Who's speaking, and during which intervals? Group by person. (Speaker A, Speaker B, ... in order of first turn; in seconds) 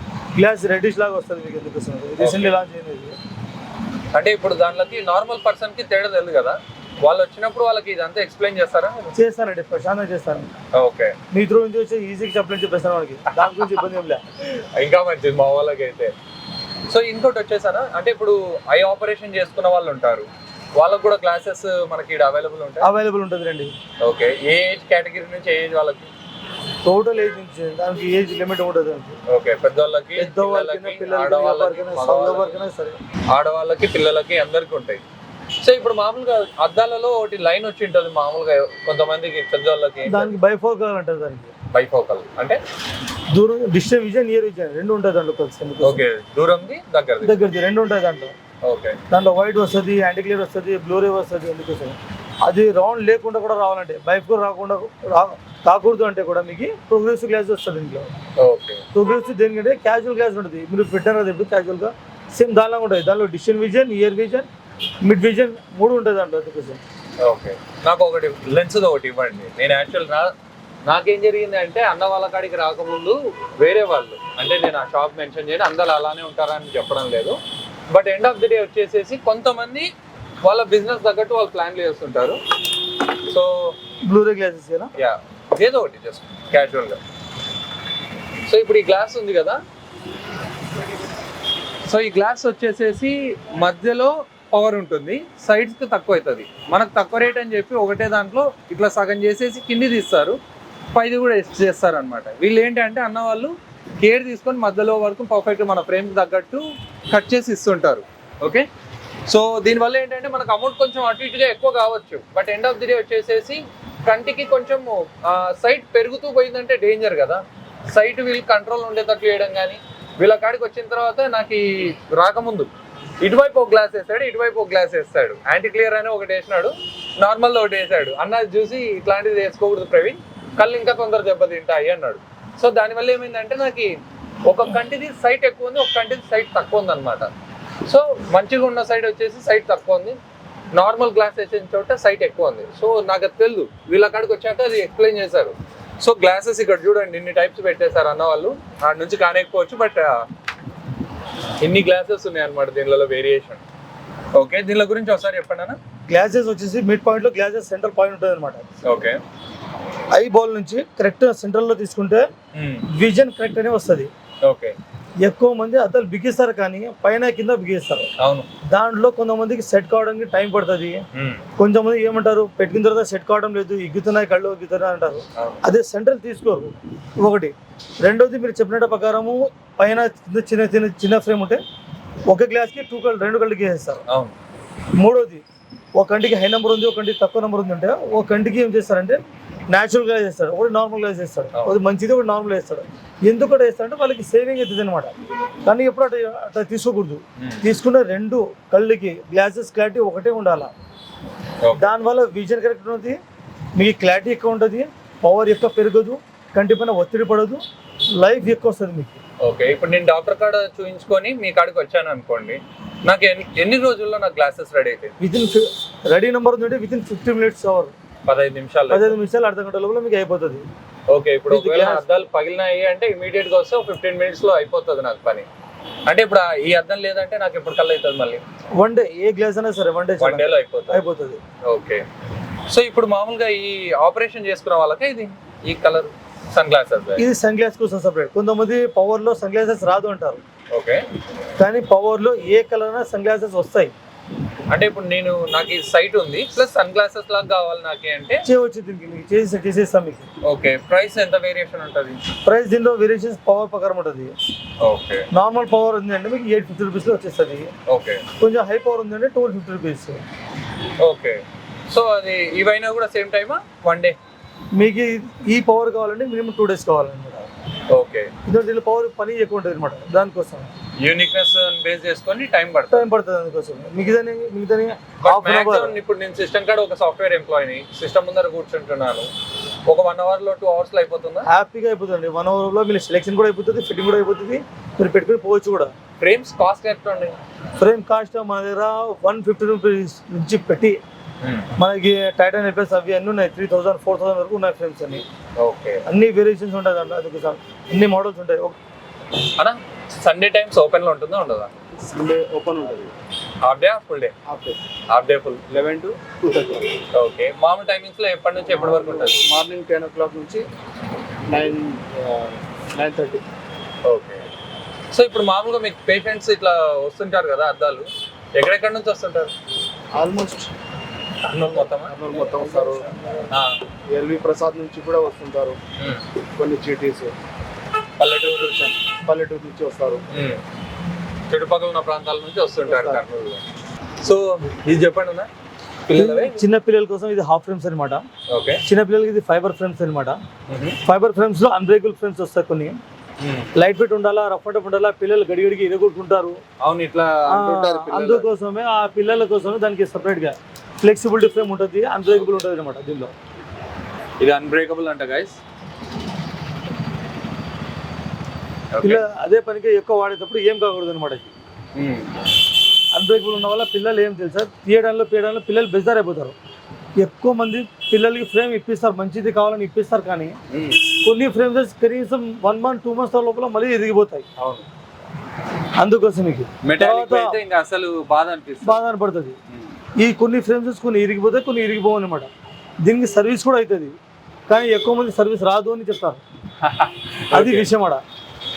Speaker A: 0.3-3.2, 9.2-10.5, 11.3-14.2, 22.8-23.7, 26.8-29.2, 30.2-33.0, 40.1-41.5, 43.3-46.0, 47.2-48.3, 49.1-58.1, 58.9-64.5, 65.0-66.8, 84.0-84.9, 156.1-158.7, 160.1-162.2, 162.9-164.1, 165.2-168.1, 168.7-171.0, 171.6-181.6, 182.3-184.0, 185.0-185.4, 185.9-189.2, 189.7-200.7, 201.8-203.2, 203.8-207.6, 208.2-209.2, 215.2-217.9, 218.9-220.7, 221.5-222.1, 228.8-231.4, 237.2-240.4, 241.6-243.9, 248.4-250.3, 252.4-254.3, 255.3-257.7, 258.4-260.2, 264.8-267.5, 268.5-270.7, 272.9-276.0, 281.4-285.9, 287.8-291.0, 291.8-295.2, 296.1-298.8, 336.1-338.2, 338.9-340.4, 341.0-343.0, 343.8-346.5, 347.5-353.3, 359.0-361.5, 363.1-366.6, 367.2-370.6, 371.1-374.5, 376.0-377.6, 378.8-379.6, 380.2-382.5, 383.0-384.1, 384.7-386.4, 387.5-388.2
Speaker B: 2.2-2.5, 4.1-9.2, 10.8-11.2, 13.4-13.8, 14.5-16.1, 16.9-22.9, 24.0-26.1, 29.3-32.6, 33.3-35.0, 35.6-40.3, 41.7-42.6, 45.8-47.5, 48.6-49.0, 58.4-58.8, 67.2-70.3, 70.8-77.4, 77.9-79.9, 80.4-82.4, 83.2-83.8, 85.0-87.0, 88.5-89.6, 91.8-100.4, 100.9-108.7, 109.3-137.3, 137.9-140.2, 140.7-150.2, 151.6-153.6, 154.3-155.8, 158.8-159.2, 162.5-162.9, 164.4-164.8, 168.2-168.5, 171.1-171.4, 175.4-175.6, 184.1-184.3, 197.4-197.6, 201.6-201.9, 209.4-215.2, 218.3-219.2, 221.1-225.5, 226.1-228.4, 230.2-231.1, 231.7-232.1, 232.7-237.3, 240.7-241.0, 244.7-248.4, 250.4-252.2, 254.8-255.2, 257.9-258.2, 261.0-264.2, 267.9-268.3, 271.0-273.1, 275.2-279.3, 279.9-281.5, 286.2-287.4, 291.4-291.7, 295.6-296.0, 299.6-301.7, 303.6-304.3, 305.1-305.7, 307.1-309.4, 314.1-314.4, 315.1-319.5, 321.4-322.1, 323.5-323.8, 326.0-326.2, 328.2-328.9, 330.3-330.6, 331.5-333.6, 334.2-335.5, 336.1-336.6, 338.5-338.8, 340.7-341.0, 343.4-343.7, 346.8-348.5, 354.4-355.6, 358.9-359.2, 361.9-362.3, 370.7-371.1, 374.6-374.9, 376.8-379.0, 386.8-387.9
Speaker C: 302.0-303.1, 304.5-304.8, 305.7-307.0, 308.7-310.6, 311.5-313.4, 320.1-320.7, 322.0-323.1, 324.1-325.8, 326.5-327.3, 328.5-330.2, 332.9-333.2